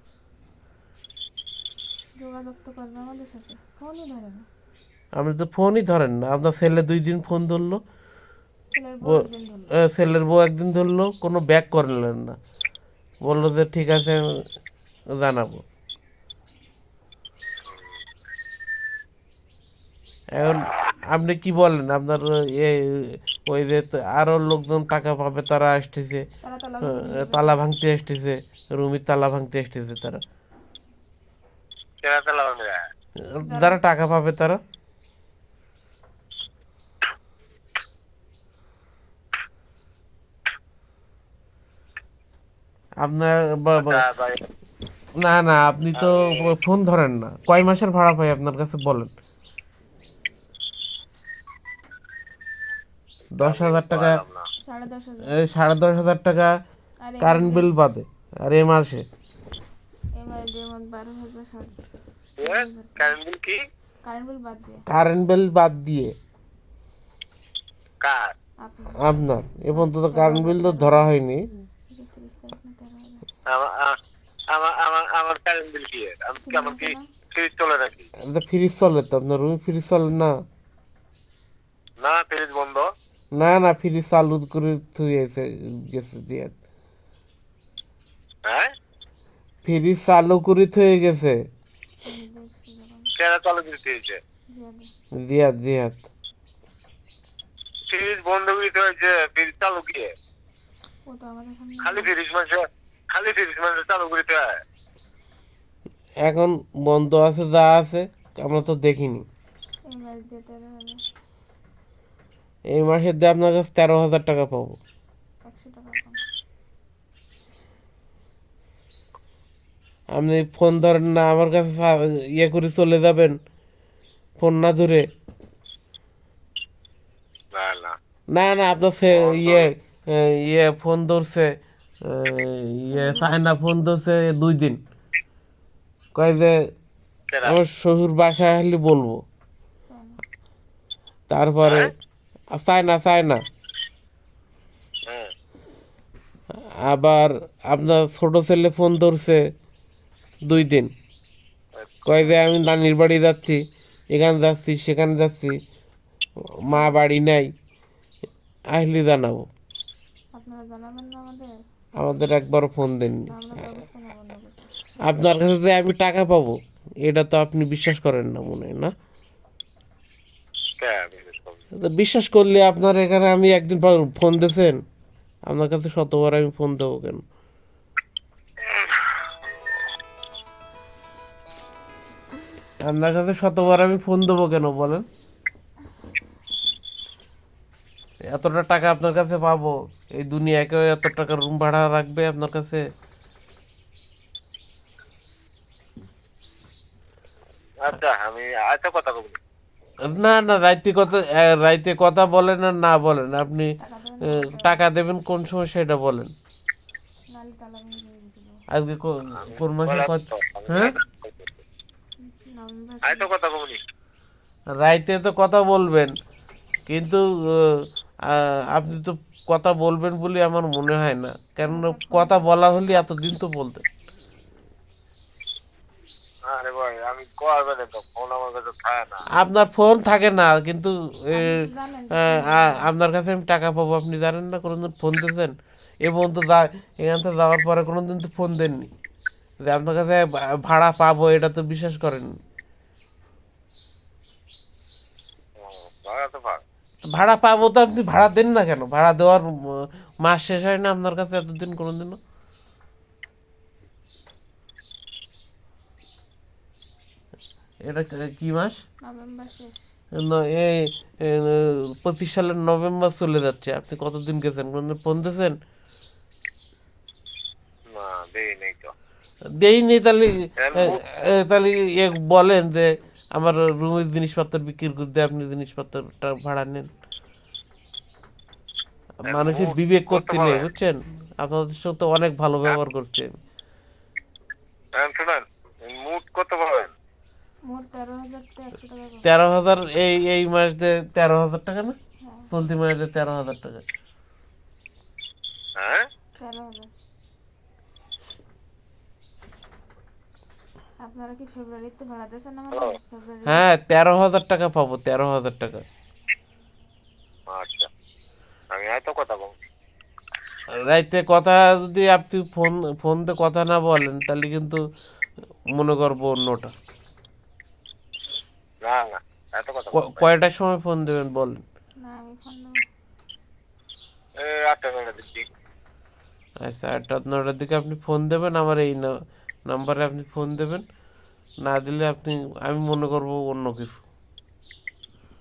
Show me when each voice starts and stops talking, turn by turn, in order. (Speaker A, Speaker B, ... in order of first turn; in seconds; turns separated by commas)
Speaker A: 2.2-4.5, Speaker B: 5.2-7.8, Speaker A: 8.7-9.8, Speaker B: 9.8-12.4, Speaker B: 13.2-14.2, Speaker B: 15.2-15.6, Speaker C: 17.7-18.0, Speaker B: 20.4-26.2, Speaker A: 26.4-27.6, Speaker B: 26.8-30.2, Speaker C: 32.0-32.8, Speaker B: 33.4-34.6, Speaker A: 33.5-33.8, Speaker B: 43.0-44.0, Speaker C: 43.8-44.4, Speaker B: 45.2-49.1, Speaker C: 46.0-46.5, Speaker B: 53.4-54.2, Speaker C: 53.4-54.5, Speaker A: 54.6-55.5, Speaker B: 55.3-56.5, Speaker A: 57.0-57.7, Speaker B: 57.2-59.0, Speaker A: 60.2-61.8, Speaker C: 62.4-63.6, Speaker A: 62.4-63.2, Speaker A: 64.0-64.8, Speaker B: 64.9-66.1, Speaker C: 68.0-68.3, Speaker A: 68.6-71.1, Speaker B: 69.0-71.4, Speaker A: 71.9-73.3, Speaker C: 73.5-74.0, Speaker C: 74.5-78.1, Speaker A: 76.4-77.1, Speaker B: 78.2-80.3, Speaker C: 82.0-82.9, Speaker B: 83.3-86.5, Speaker B: 89.7-91.4, Speaker A: 92.0-93.1, Speaker C: 93.2-94.2, Speaker A: 94.5-94.9, Speaker B: 95.2-96.1, Speaker C: 97.9-100.1, Speaker A: 101.1-102.2, Speaker C: 101.8-104.6, Speaker B: 106.2-109.2, Speaker A: 109.9-111.0, Speaker B: 112.7-114.8, Speaker A: 115.5-116.2, Speaker B: 120.1-123.4, Speaker B: 124.4-125.0, Speaker C: 127.5-127.9, Speaker B: 128.3-131.5, Speaker C: 129.1-129.7, Speaker B: 132.1-134.8, Speaker A: 132.9-133.3, Speaker B: 136.2-136.6, Speaker C: 137.3-137.6, Speaker B: 137.4-139.2, Speaker A: 139.9-140.2, Speaker B: 141.3-141.9, Speaker B: 142.5-143.4, Speaker B: 146.8-149.4, Speaker B: 150.5-150.9, Speaker B: 152.1-155.6, Speaker B: 156.7-157.5, Speaker A: 156.7-157.0, Speaker B: 158.7-159.5, Speaker A: 160.3-161.5, Speaker B: 162.0-163.7, Speaker A: 163.3-164.7, Speaker B: 165.0-168.9, Speaker C: 170.8-171.6, Speaker B: 171.8-174.8, Speaker B: 175.5-177.2, Speaker B: 182.8-185.1, Speaker B: 188.3-192.8, Speaker C: 197.8-199.4, Speaker B: 200.1-203.7, Speaker A: 203.8-204.8, Speaker B: 204.3-206.3, Speaker A: 207.3-208.6, Speaker B: 208.7-210.9, Speaker C: 209.4-211.6, Speaker A: 212.2-213.3, Speaker C: 213.0-213.8, Speaker B: 214.8-216.2, Speaker B: 216.9-223.8, Speaker A: 221.6-222.5, Speaker C: 226.5-229.3, Speaker B: 229.3-238.9, Speaker A: 231.3-232.9, Speaker B: 239.6-242.3, Speaker C: 245.6-246.6, Speaker B: 247.1-252.2, Speaker B: 257.9-258.8, Speaker A: 259.0-259.9, Speaker B: 260.2-265.6, Speaker C: 267.9-268.9, Speaker B: 269.6-276.9, Speaker C: 270.6-271.0, Speaker B: 279.2-283.4, Speaker C: 279.3-280.7, Speaker C: 285.0-286.9, Speaker A: 287.6-289.3, Speaker B: 289.2-292.0, Speaker A: 292.2-292.5, Speaker B: 292.5-293.8, Speaker C: 295.8-296.1, Speaker A: 296.4-296.9, Speaker A: 301.0-303.7, Speaker B: 303.5-305.8, Speaker C: 307.5-307.9, Speaker C: 308.7-309.5, Speaker B: 310.9-314.8, Speaker B: 315.7-316.7, Speaker C: 318.9-320.3, Speaker B: 319.9-321.6, Speaker A: 322.0-322.8, Speaker C: 324.4-325.4, Speaker B: 326.6-329.1, Speaker B: 329.7-330.9, Speaker B: 331.6-334.1